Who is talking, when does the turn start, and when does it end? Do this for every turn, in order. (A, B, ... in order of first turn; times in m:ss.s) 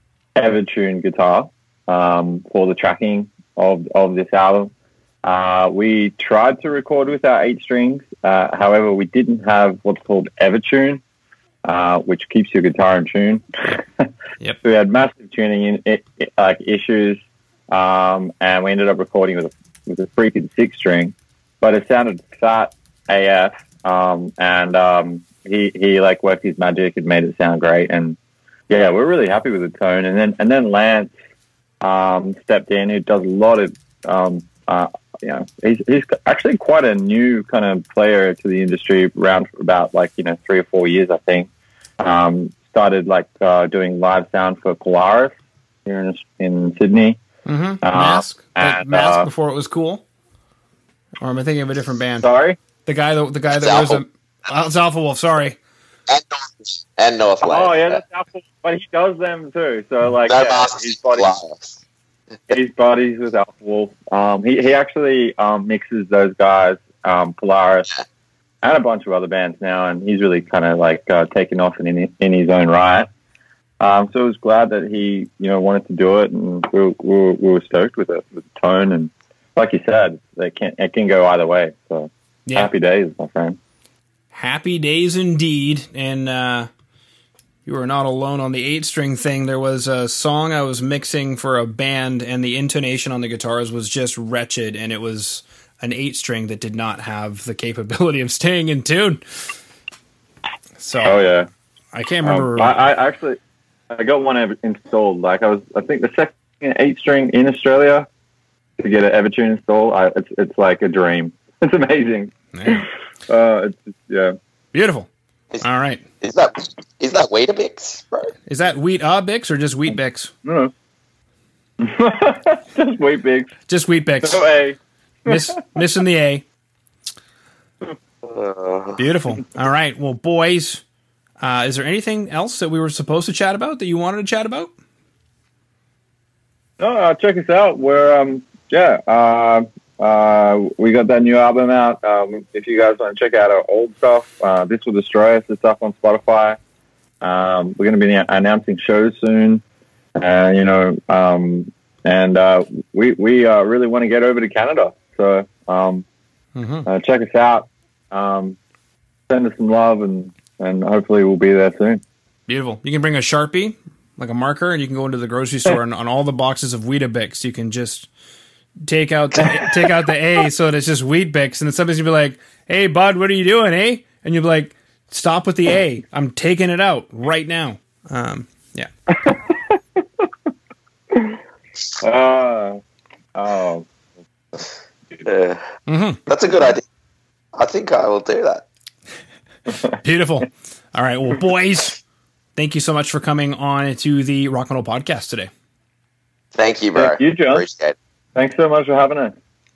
0:00.4-0:04.7 A
0:05.2-0:11.0 A
0:11.6-0:14.1 A
0:14.6-0:17.2 A
0:17.7-0:28.2 A
0:28.7-0:31.1 A
0:31.8-0:41.5 A
0:42.0-0:45.3 A
0:45.8-0:47.2 A
0:47.4-0:50.0 B
0:47.8-0:49.3 A
0:51.2-0:52.2 B
0:52.2-0:52.6 A
0:52.8-0:55.6 B
0:53.5-0:54.0 C
0:56.1-0:58.0 C
0:57.4-1:01.3 A
1:00.2-1:01.8 C
1:02.5-1:07.9 A
1:08.6-1:13.1 A
1:13.8-1:23.6 A
1:24.3-1:26.7 B
1:27.6-1:39.2 B
1:40.8-1:41.2 B
1:41.0-1:41.5 A
1:41.9-1:42.7 B
1:42.2-1:43.4 A
1:43.9-1:48.1 A
1:48.8-1:54.3 A
1:52.5-1:52.8 B
1:54.7-1:55.1 B
1:55.6-1:56.0 B
1:56.2-1:58.3 C
1:58.5-2:00.3 B
2:00.4-2:00.7 A
2:01.8-2:03.5 A
2:03.7-2:04.4 B
2:04.2-2:05.6 A
2:05.3-2:06.4 B
2:08.2-2:09.0 C
2:09.0-2:10.8 B
2:11.4-2:14.7 B
2:16.8-2:26.6 A
2:27.2-2:29.6 A
2:30.2-2:36.0 A
2:36.6-2:36.8 B
2:36.8-2:38.6 A
2:39.3-2:42.0 A
2:42.5-2:48.1 B
2:48.8-2:58.9 B
2:59.2-2:59.8 A
3:01.1-3:01.4 A
3:02.0-3:02.8 A
3:03.3-3:03.8 A
3:05.2-3:05.6 C
3:05.9-3:06.2 B
3:06.3-3:06.8 C
3:07.6-3:08.6 C
3:10.0-3:12.0 B
3:12.6-3:15.5 B
3:16.5-3:18.0 C
3:17.0-3:17.6 A
3:18.3-3:19.3 A